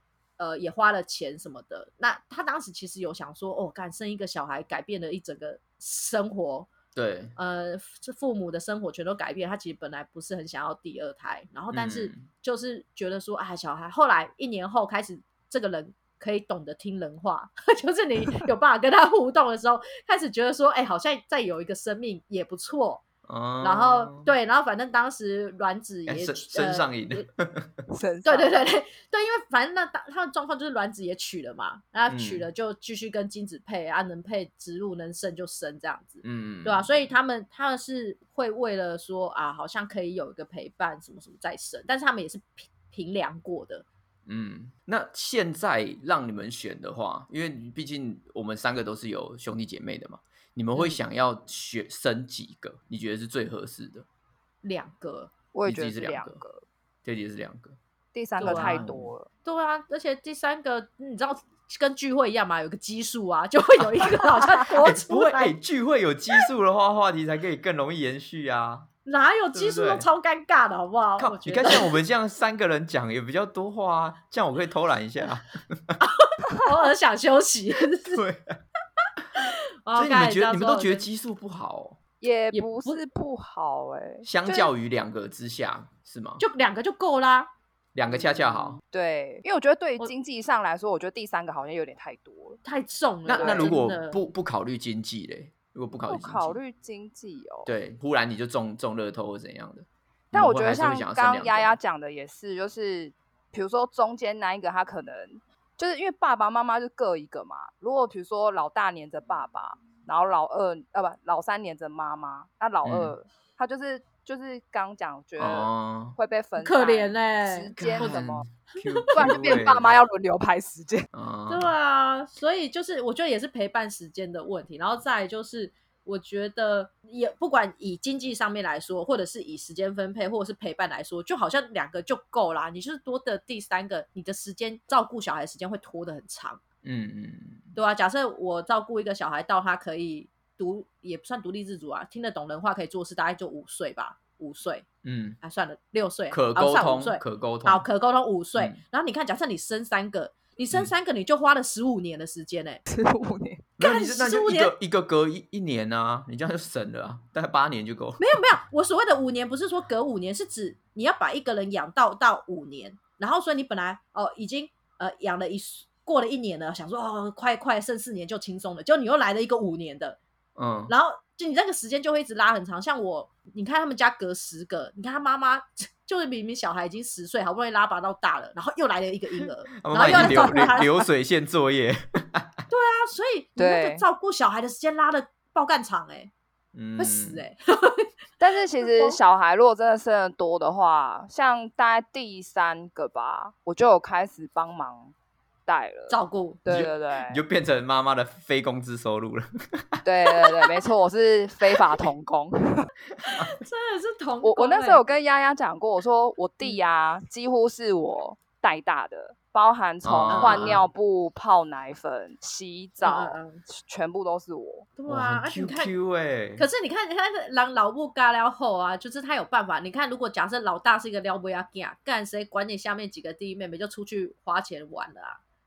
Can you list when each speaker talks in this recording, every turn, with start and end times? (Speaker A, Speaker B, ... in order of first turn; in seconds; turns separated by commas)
Speaker A: 0.4-6.7, Speaker B: 6.9-7.3, Speaker A: 7.4-23.0, Speaker B: 11.7-12.3, Speaker B: 23.3-24.3, Speaker A: 23.6-27.3, Speaker B: 26.1-27.7, Speaker C: 27.9-28.6, Speaker A: 28.2-43.9, Speaker B: 32.1-32.5, Speaker B: 36.2-36.9, Speaker B: 44.3-54.1, Speaker A: 54.6-55.3, Speaker C: 55.5-56.6, Speaker B: 55.6-56.4, Speaker B: 57.0-57.8, Speaker C: 58.1-59.3, Speaker A: 58.4-58.9, Speaker B: 58.4-59.1, Speaker A: 59.4-65.6, Speaker B: 64.7-68.9, Speaker A: 69.0-71.9, Speaker B: 69.5-70.1, Speaker B: 71.2-76.0, Speaker A: 76.0-78.2, Speaker B: 78.1-78.6, Speaker A: 79.4-81.1, Speaker B: 79.9-82.0, Speaker C: 82.2-84.7, Speaker A: 82.5-83.0, Speaker B: 84.2-86.4, Speaker A: 86.4-87.5, Speaker B: 87.9-88.8, Speaker C: 88.1-92.6, Speaker A: 92.6-94.2, Speaker B: 93.2-96.6, Speaker C: 93.4-93.8, Speaker C: 96.1-97.7, Speaker B: 97.7-101.8, Speaker C: 100.3-118.5, Speaker B: 112.8-113.1, Speaker B: 115.4-116.2, Speaker A: 116.6-118.2, Speaker B: 117.8-119.9, Speaker A: 118.8-119.4, Speaker C: 119.1-121.1, Speaker B: 121.1-121.7, Speaker A: 121.5-136.6, Speaker B: 136.8-137.7, Speaker A: 137.7-144.9, Speaker B: 145.0-145.4, Speaker A: 145.4-152.8, Speaker B: 146.3-147.8, Speaker C: 152.9-153.7, Speaker A: 153.8-154.7, Speaker B: 153.8-158.4, Speaker A: 158.2-170.2, Speaker B: 170.6-170.9, Speaker A: 170.9-180.9, Speaker B: 179.8-182.6, Speaker C: 180.0-180.8, Speaker A: 182.7-186.3, Speaker C: 183.6-184.0, Speaker B: 186.7-187.4, Speaker A: 187.0-188.1, Speaker C: 188.4-195.1, Speaker A: 188.8-189.2, Speaker C: 195.7-197.4, Speaker A: 196.1-196.6, Speaker B: 196.7-200.0, Speaker C: 200.0-202.9, Speaker A: 203.2-205.0, Speaker C: 204.4-214.9, Speaker B: 210.0-210.8, Speaker A: 210.3-210.8, Speaker A: 213.0-213.6, Speaker A: 215.0-215.9, Speaker B: 215.1-216.7, Speaker A: 216.6-225.4